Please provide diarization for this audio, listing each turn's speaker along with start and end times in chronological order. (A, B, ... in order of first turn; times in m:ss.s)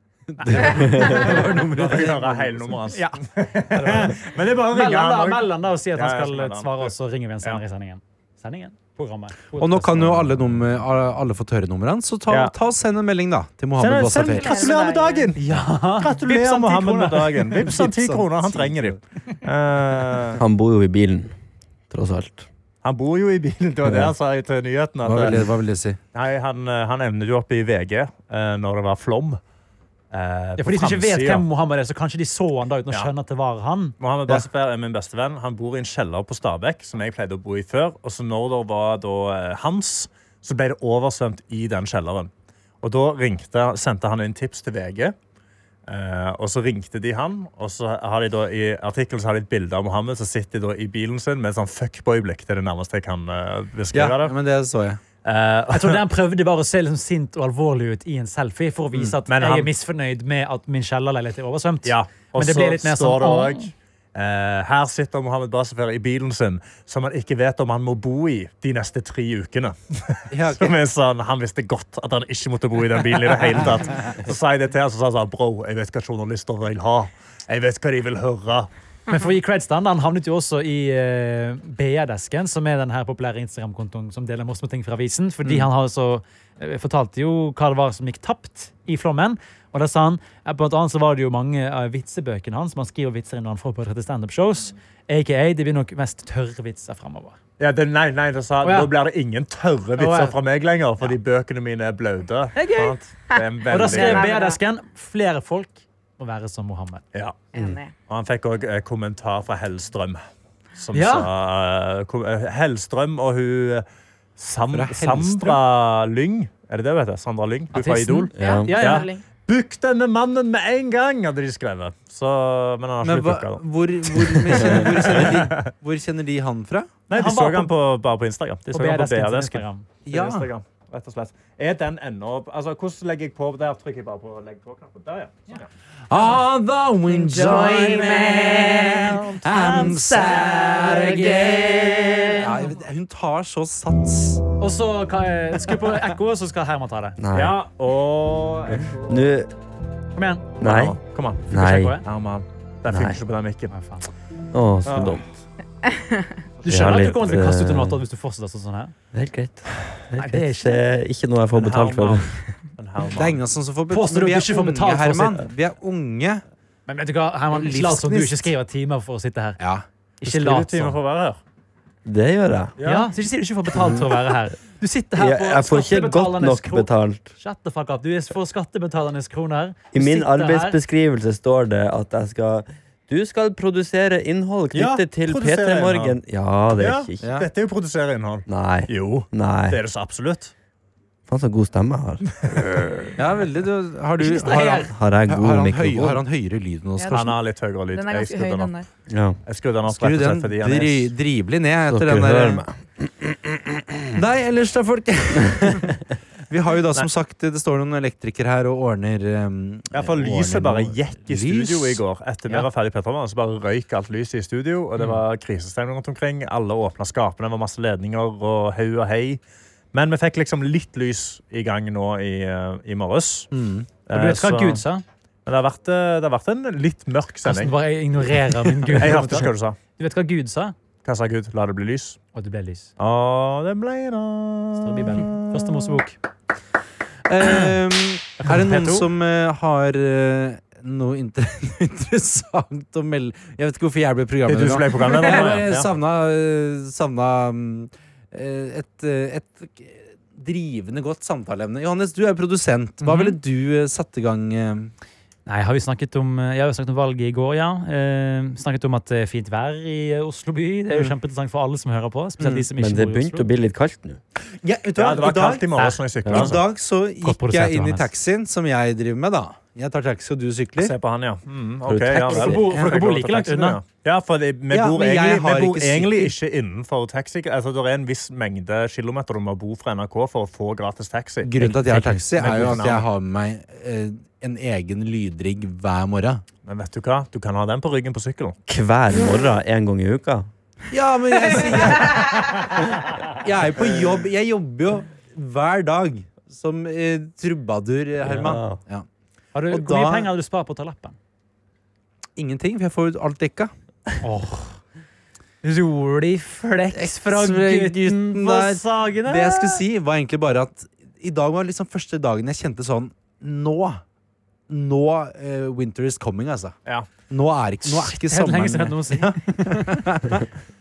0:00.3-0:02.8 A
0:00.4-0:01.2 B
0:00.8-0:01.3 C
0:01.7-0:06.9 D
0:02.9-0:10.2 B
0:09.6-0:14.7 A
0:12.3-0:12.5 D
0:13.8-0:20.4 D
0:14.3-0:15.3 E
0:15.4-0:17.7 B
0:17.6-0:19.0 A
0:20.4-0:21.4 C
0:21.9-0:22.5 C
0:22.8-0:25.5 D
0:25.0-0:26.0 A
0:26.2-0:29.4 D
0:30.1-0:31.5 D
0:30.6-0:34.0 B
0:34.0-0:42.3 D
0:42.8-0:45.2 D
0:45.9-0:54.3 D
0:53.9-0:55.0 A
0:55.2-0:56.0 D
0:55.7-1:03.7 B
0:59.3-0:59.7 D
1:01.8-1:18.7 D
1:10.3-1:10.8 A
1:19.1-1:37.4 B
1:37.6-1:44.3 D
1:38.6-1:38.9 B
1:40.0-1:40.4 B
1:42.6-1:43.0 B
1:43.3-1:44.6 E
1:43.7-1:47.0 B
1:47.1-1:47.5 D
1:47.5-1:47.9 E
1:48.1-1:50.2 D
1:50.8-1:53.8 D
1:50.9-1:51.3 B
1:54.4-2:05.7 D
1:54.7-1:55.6 A
1:57.7-1:59.1 B
1:58.4-1:58.9 C
1:58.4-1:59.2 E
2:03.0-2:07.0 A
2:07.1-2:15.7 D
2:07.1-2:07.7 B
2:08.7-2:09.9 B
2:10.1-2:10.5 A
2:16.1-2:24.4 A
2:17.1-2:22.5 E
2:19.2-2:19.5 D
2:24.6-2:27.2 B
2:27.2-2:27.6 C
2:27.3-2:29.2 D
2:28.7-2:29.5 C
2:30.2-2:30.5 B
2:30.6-2:32.0 C
2:30.6-2:33.7 D
2:31.5-2:32.0 B
2:32.9-2:33.2 C
2:33.7-2:34.1 B
2:34.5-2:35.2 C
2:34.8-2:35.2 D
2:35.9-2:36.3 E
2:36.6-2:38.9 B
2:36.7-2:38.0 C
2:39.1-2:42.4 C
2:40.1-2:40.8 B
2:41.5-2:43.4 D
2:43.1-2:46.4 A
2:43.9-2:45.4 B
2:46.9-2:49.6 B
2:47.5-2:48.5 A
2:49.6-2:49.8 A
2:50.2-2:51.0 B
2:50.2-2:51.4 D
2:52.0-2:52.7 C
2:52.8-2:53.1 D
2:52.8-3:00.8 B
2:53.8-2:54.0 C
2:55.2-2:57.3 C
2:59.9-3:07.3 C
3:04.7-3:06.2 D
3:06.8-3:10.5 D
3:07.2-3:07.5 A
3:08.5-3:09.8 C
3:11.3-3:12.6 C
3:12.5-3:13.1 D
3:13.2-3:17.4 A
3:14.2-3:14.9 B
3:14.9-3:16.2 C
3:17.0-3:17.2 E
3:17.1-3:18.8 D
3:17.9-3:18.9 E
3:19.1-3:19.4 C
3:19.5-3:21.1 D
3:19.9-3:22.6 A
3:21.9-3:23.4 C
3:24.2-3:25.9 A
3:26.5-3:32.0 A
3:29.9-3:39.4 D
3:39.9-3:43.5 D
3:43.5-3:43.9 A
3:44.1-3:44.8 D
3:44.1-3:45.0 B
3:45.5-3:47.8 D
3:47.4-3:50.8 B
3:48.9-3:49.8 D
3:51.0-3:52.2 D
3:52.3-3:52.9 B
3:53.0-3:56.0 D
3:54.8-3:56.2 B
3:57.3-4:14.9 A
3:58.4-3:59.1 B
4:04.5-4:05.9 D
4:13.0-4:13.4 B
4:15.5-4:23.5 B
4:22.7-4:24.2 C
4:24.6-4:25.7 A
4:25.0-4:26.6 D
4:26.2-4:26.5 C
4:26.3-4:31.0 A
4:27.2-4:28.1 B
4:30.8-4:41.6 D
4:31.9-4:32.7 C
4:32.2-4:33.8 B
4:34.7-4:36.4 A
4:41.4-4:46.4 A
4:41.6-4:42.7 B
4:42.4-4:43.0 D
4:46.6-4:48.6 D
4:48.7-4:50.5 C
4:50.9-4:52.5 A
4:53.4-4:59.1 A
4:58.2-4:58.8 C
4:59.6-5:01.2 B
4:59.7-5:00.3 A
5:02.4-5:03.7 A
5:04.2-5:04.8 B
5:05.6-5:09.8 B
5:06.9-5:14.0 A
5:14.7-5:16.8 A
5:17.3-5:20.5 A
5:17.9-5:20.0 B